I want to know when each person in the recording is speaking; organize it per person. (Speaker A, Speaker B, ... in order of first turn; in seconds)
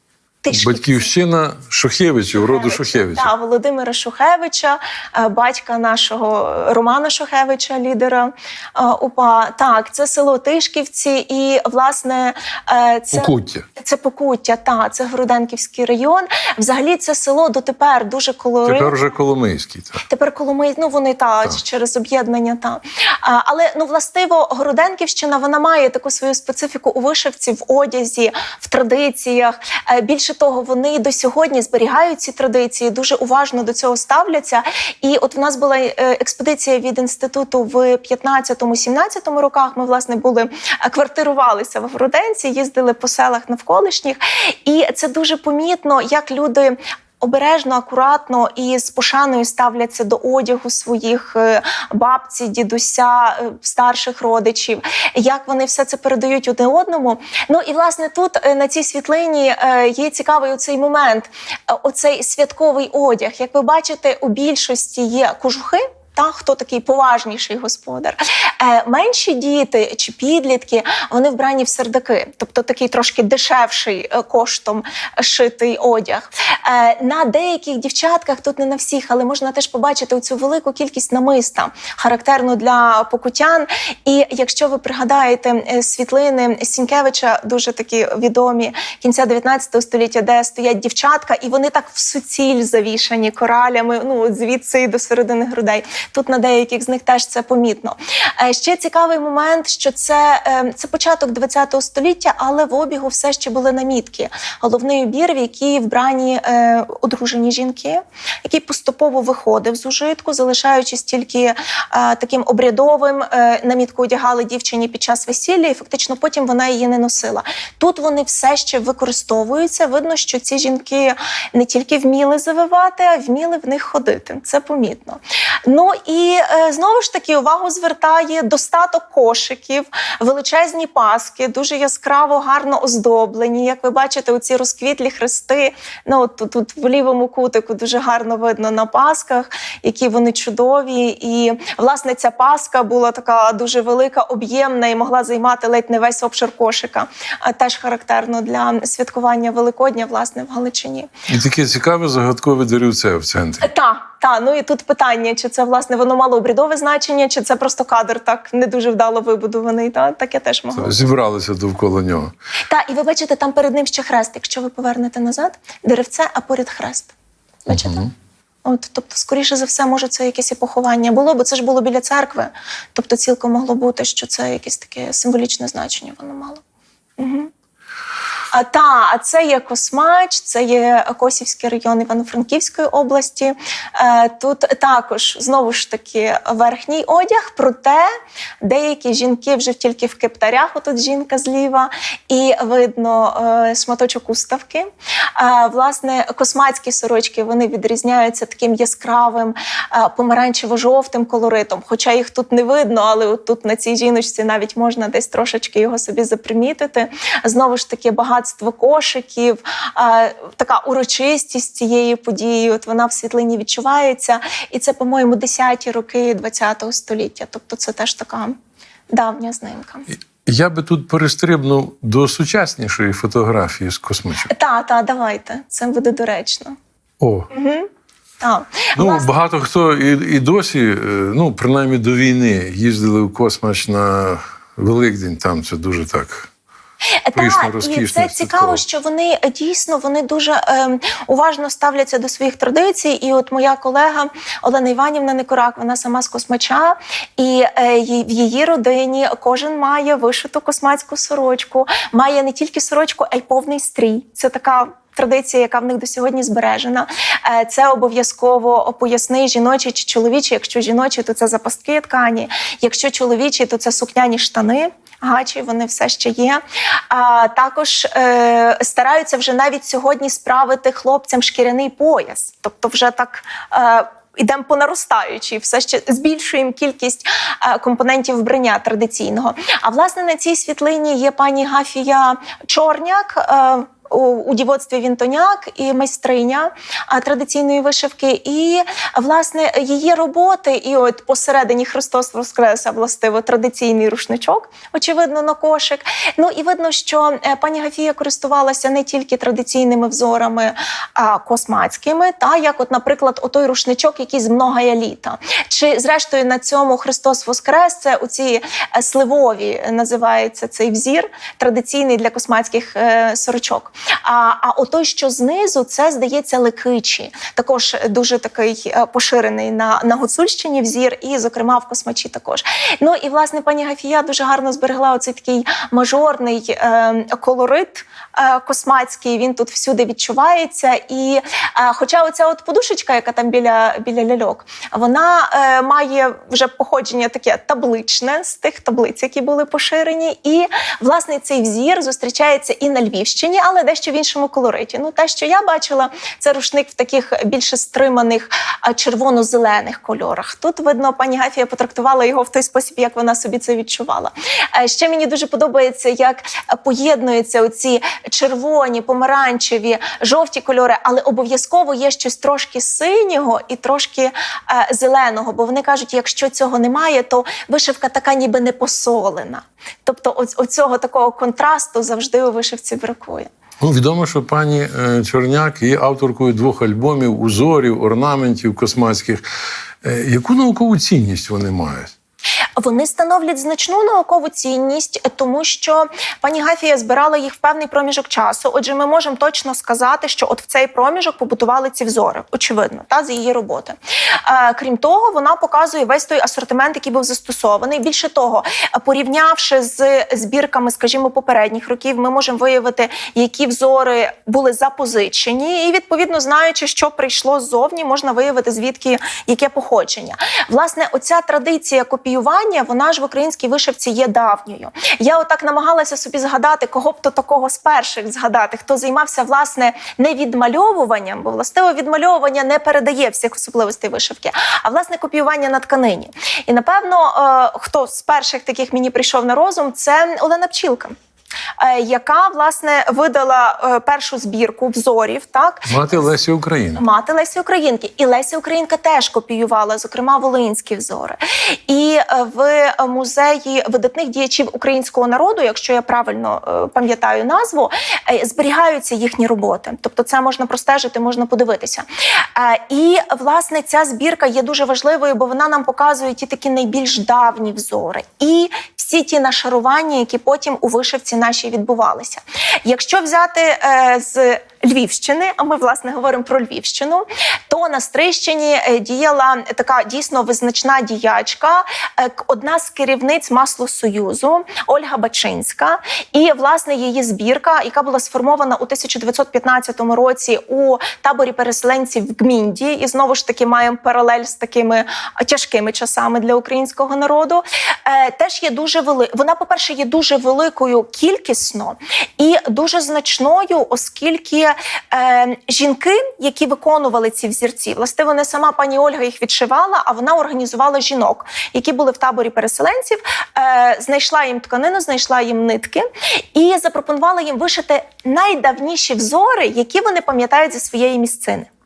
Speaker A: 0.4-1.1, 2.4-19.0, 20.1-151.1, 153.6-161.1, 162.7-167.1, 167.7-168.1, 168.7-176.6, 177.2-177.5, 178.5-188.1, 188.6-218.6, 219.1-220.1, 224.5-226.8, 227.5-227.9, 228.4-229.3, 237.2-373.5, 382.8-431.1, 431.8-436.3, 437.0-511.7
Speaker B: 0.5-3.3, 13.1-13.7, 18.6-20.0, 151.3-153.7, 160.7-162.3, 167.7-168.1, 220.4-224.5, 227.2-227.5, 229.0-236.5, 237.3-238.8, 373.8-379.4, 380.0-382.1, 435.9-437.0